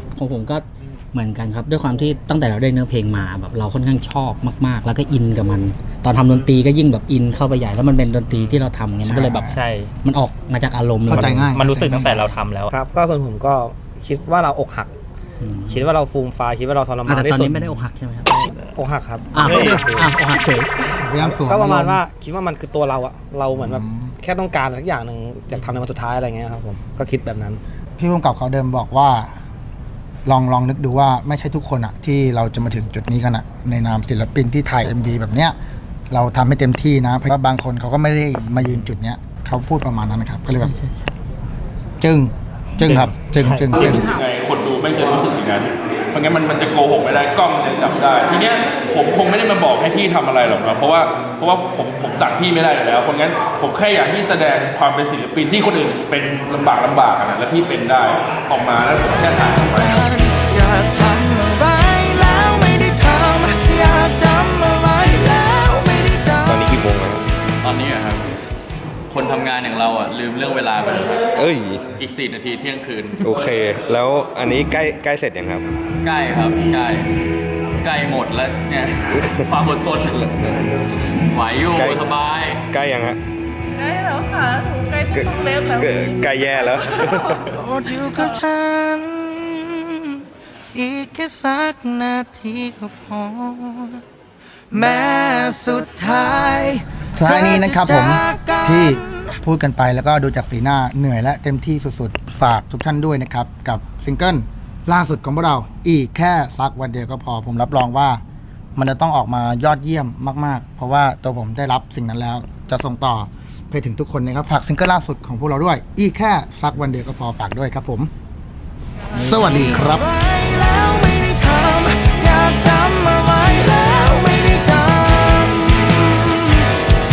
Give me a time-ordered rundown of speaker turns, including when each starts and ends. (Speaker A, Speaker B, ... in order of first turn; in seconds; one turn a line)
Speaker A: 0.2-12.4
Speaker B: 9.0-9.6
Speaker C: 9.5-9.9
Speaker B: 11.0-12.2
Speaker C: 11.1-12.7
Speaker D: 12.7-14.9
Speaker A: 15.4-15.9
Speaker D: 15.6-17.9
Speaker A: 17.0-18.5
Speaker D: 18.4-20.3
Speaker A: 19.3-20.7
Speaker B: 21.0-22.0
Speaker D: 21.1-27.6
Speaker B: 23.5-24.1
Speaker B: 28.0-29.3
Speaker B: 30.2-35.6
Speaker B: 36.1-40.7
Speaker A: 40.6-41.1
Speaker B: 42.0-44.1
Speaker C: 42.9-43.4
Speaker E: 43.7-60.1
Speaker F: 59.3-66.8
Speaker G: 66.5-67.2
Speaker H: 67.6-68.3
Speaker H: 69.1-71.3
Speaker G: 71.3-71.8
Speaker H: 72.0-73.3
Speaker G: 73.2-75.7
Speaker H: 76.0-77.1
Speaker H: 77.8-80.3
Speaker G: 80.1-80.7
Speaker H: 81.3-82.6
Speaker G: 81.7-82.0
Speaker G: 82.7-83.2
Speaker I: 83.8-86.6
Speaker G: 85.1-87.5
Speaker F: 87.5-90.2
Speaker F: 90.7-94.0
Speaker F: 94.7-99.4
Speaker B: 97.1-108.2
Speaker B: 108.7-118.1
Speaker B: 119.2-120.1
Speaker F: 119.2-126.7
Speaker A: 119.2-119.8